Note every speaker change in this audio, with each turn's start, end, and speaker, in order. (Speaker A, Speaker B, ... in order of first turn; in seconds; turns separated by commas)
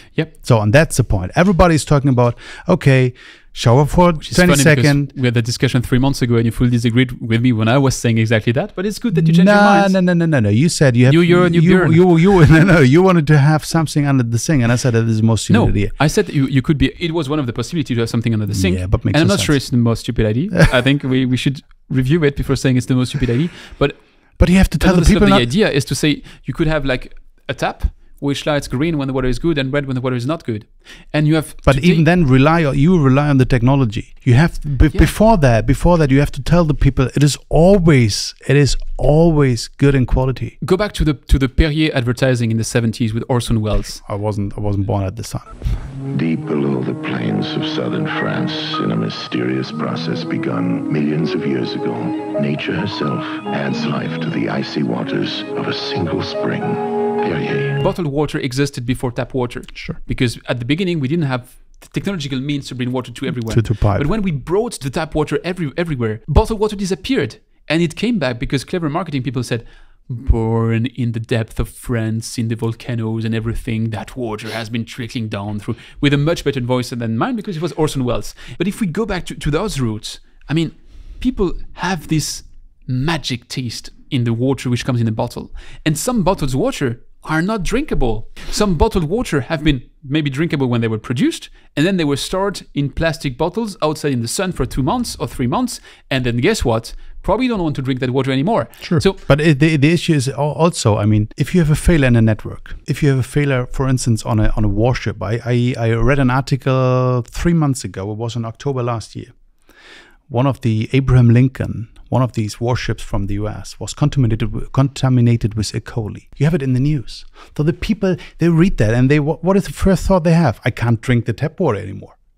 Speaker A: 0.3-5.1, Speaker B: 4.2-9.9, Speaker A: 9.1-15.9, Speaker B: 11.1-12.4, Speaker B: 15.5-32.0, Speaker A: 18.5-20.0, Speaker A: 24.4-25.5, Speaker A: 31.6-40.6, Speaker B: 40.6-44.0, Speaker A: 44.0-45.8, Speaker C: 46.1-57.8, Speaker B: 57.8-99.2, Speaker A: 63.5-64.1, Speaker A: 98.8-109.3, Speaker A: 110.3-122.2